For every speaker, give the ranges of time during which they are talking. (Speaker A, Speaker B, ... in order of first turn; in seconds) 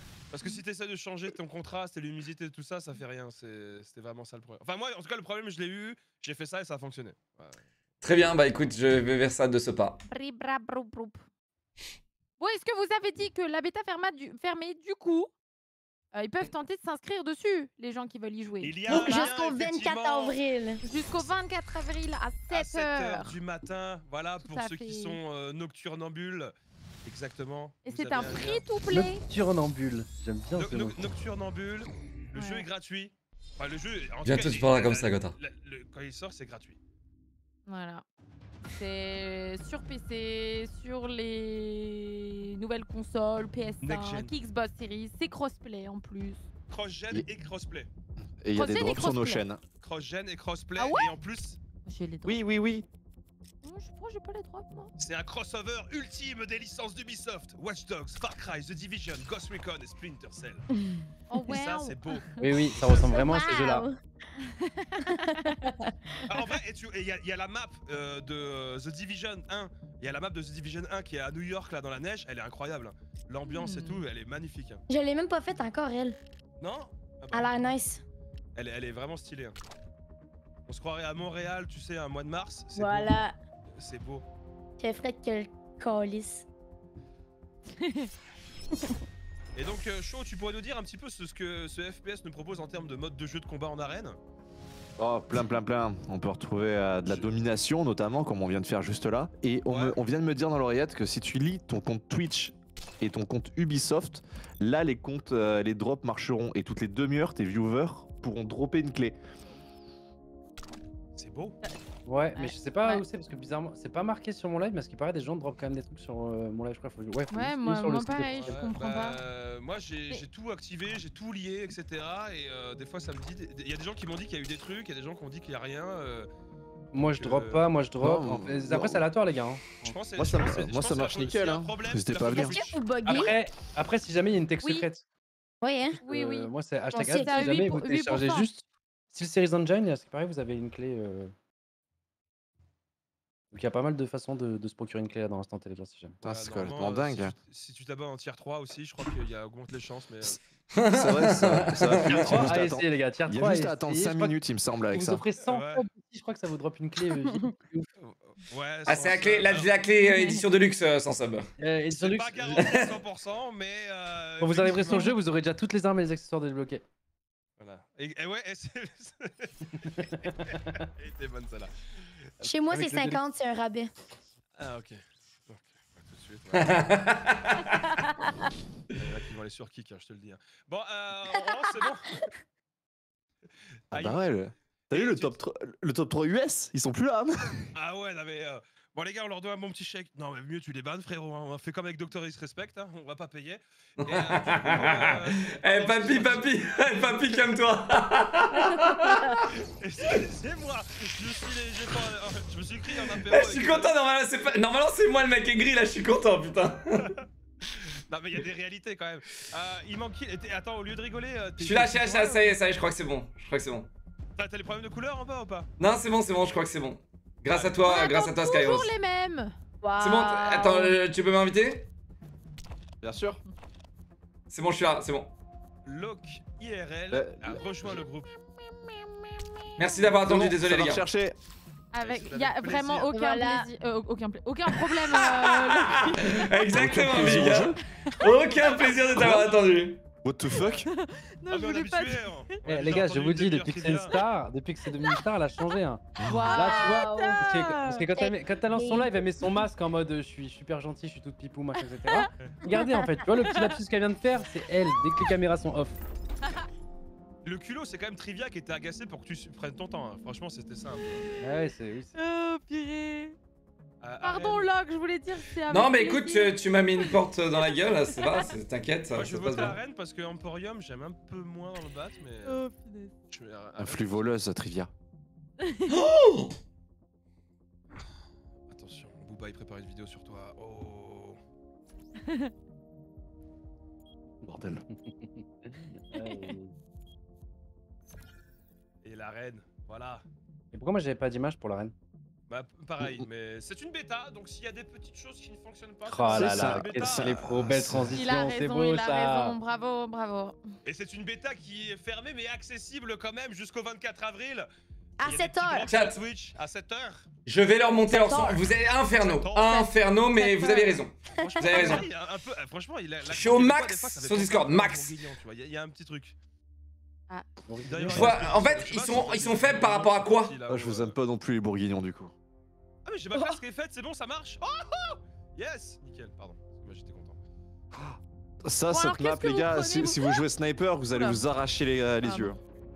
Speaker A: 0.3-7.6, 18.6-20.4, 22.5-28.7, 30.5-36.8, 43.8-44.3, 46.7-47.9, 49.8-51.6, 55.0-60.6, 61.4-62.2, 66.3-74.8, 76.6-77.5, 78.5-79.5, 80.7-83.2, 83.7-84.2, 89.5-94.2, 99.7-100.0, 111.1-111.6, 118.4-126.3, 127.2-127.6, 129.8-132.8, 146.2-150.4, 151.9-152.5, 155.5-155.8, 158.4-159.7, 161.9-165.1, 167.6-171.7, 174.6-177.7, 178.9-182.2, 183.9-184.3, 184.9-185.3, 187.7-197.2, 199.8-203.9, 207.0-212.3, 214.4-215.7, 217.5-217.8, 225.8-229.1, 232.0-233.1, 238.5-239.5, 241.5-244.2, 257.4-261.2, 264.0-264.7, 269.1-272.6, 273.3-274.4, 278.7-281.4, 289.0-290.2, 292.5-297.4, 300.8-304.7, 305.2-307.3, 309.2-309.8, 311.4-316.4, 317.9-321.2, 323.1-327.4
Speaker B: 8.0-10.0, 34.2-35.3, 150.7-152.4, 158.8-161.4, 162.5-162.9, 176.5-177.8, 194.0-199.4, 203.3-207.1, 211.6-213.9, 215.8-218.9, 220.0-221.9, 224.5-225.3, 229.8-231.0, 235.0-240.0, 265.7-269.8, 275.9-276.5, 305.9-306.2, 307.4-312.1, 313.2-315.1, 318.1-320.6
Speaker C: 10.1-11.2, 12.4-15.3, 16.1-19.3, 20.8-23.4, 24.4-25.2, 27.8-29.2, 32.3-32.6, 37.7-38.0, 38.7-46.4, 48.5-49.5, 50.8-51.1, 51.8-52.4, 53.6-54.9, 61.3-62.4, 64.5-66.4, 73.5-74.0, 87.8-88.1, 112.3-113.0, 117.3-119.2, 134.6-134.9, 136.0-138.5, 160.0-160.4, 212.2-212.5, 217.8-219.5, 231.9-236.5, 238.1-238.3, 240.6-242.4, 246.3-248.0, 253.4-253.7, 262.1-263.4, 264.2-268.5, 272.4-273.1, 275.6-275.9, 286.1-286.6, 298.1-300.6, 309.6-311.0, 311.7-312.0, 328.9-330.5, 331.1-331.4, 332.2-332.5
Speaker D: 18.9-20.8, 60.7-61.0, 63.0-64.0, 65.0-66.2, 74.9-76.2, 77.3-78.0, 82.7-83.3, 84.8-86.4, 132.4-133.3, 135.6-136.0, 136.9-137.8, 172.4-173.9, 178.2-178.5, 219.8-221.0, 233.1-233.7, 246.3-247.6, 248.1-249.1, 305.2-306.0, 308.1-308.6
Speaker E: 28.9-31.0, 62.4-63.8, 112.0-118.6, 126.9-129.9, 133.1-135.0, 135.9-141.3, 143.5-146.2, 152.2-154.3, 154.9-157.9, 161.6-162.5, 164.4-166.8, 169.8-170.8, 172.7-173.2, 242.7-256.0, 261.4-262.1, 285.0-286.7, 290.7-291.9, 296.1-299.6, 317.7-318.4
Speaker F: 48.4-49.6, 52.2-52.9, 95.0-109.2, 128.0-129.1, 130.2-132.7, 146.2-147.3, 150.9-155.2, 183.9-187.7, 223.0-223.4, 227.1-228.0, 230.2-231.3, 236.7-237.8, 239.2-239.5, 240.2-240.9, 246.2-246.5, 273.8-274.9, 284.4-284.8, 293.0-293.2, 296.3-298.2, 320.7-322.3, 327.9-332.6